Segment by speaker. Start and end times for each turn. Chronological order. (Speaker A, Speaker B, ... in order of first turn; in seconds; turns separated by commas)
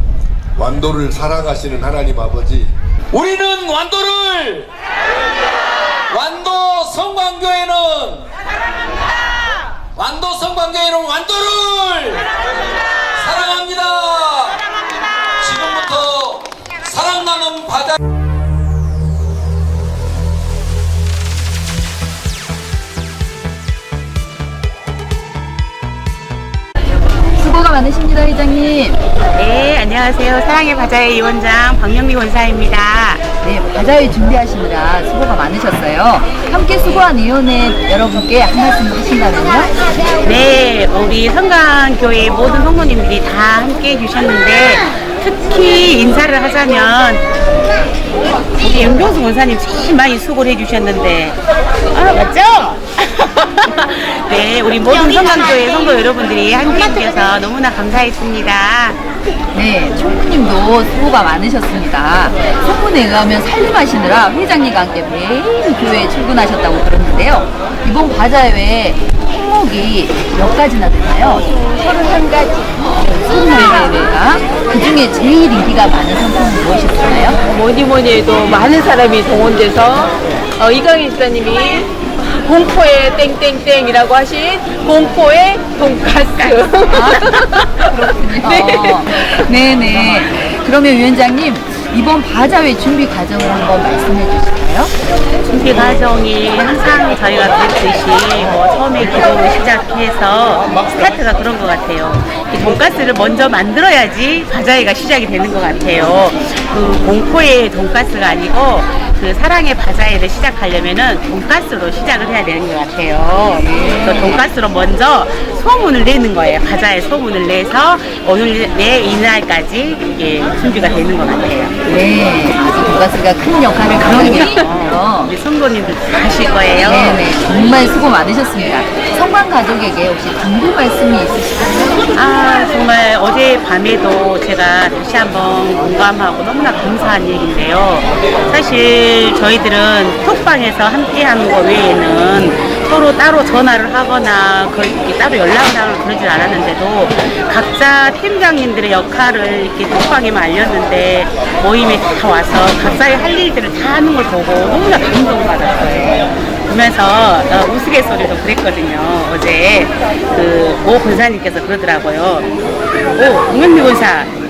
Speaker A: 0.6-2.7, Speaker B: 3.1-4.7, Speaker B: 6.1-8.3, Speaker B: 9.9-12.3, Speaker B: 13.2-14.6, Speaker B: 15.4-18.0, Speaker C: 27.4-29.0, Speaker D: 29.4-33.2, Speaker C: 33.4-39.7, Speaker D: 40.2-47.2, Speaker D: 48.5-51.4, Speaker D: 51.9-59.0, Speaker C: 59.5-71.6, Speaker C: 72.7-77.4, Speaker E: 77.5-80.1, Speaker E: 80.7-81.7, Speaker E: 82.4-86.8, Speaker D: 86.4-87.4, Speaker C: 86.8-94.9, Speaker D: 95.5-121.8, Speaker C: 113.6-114.4, Speaker C: 121.9-125.3, Speaker D: 123.9-127.2, Speaker C: 126.8-132.0, Speaker D: 132.1-162.5, Speaker D: 163.1-164.3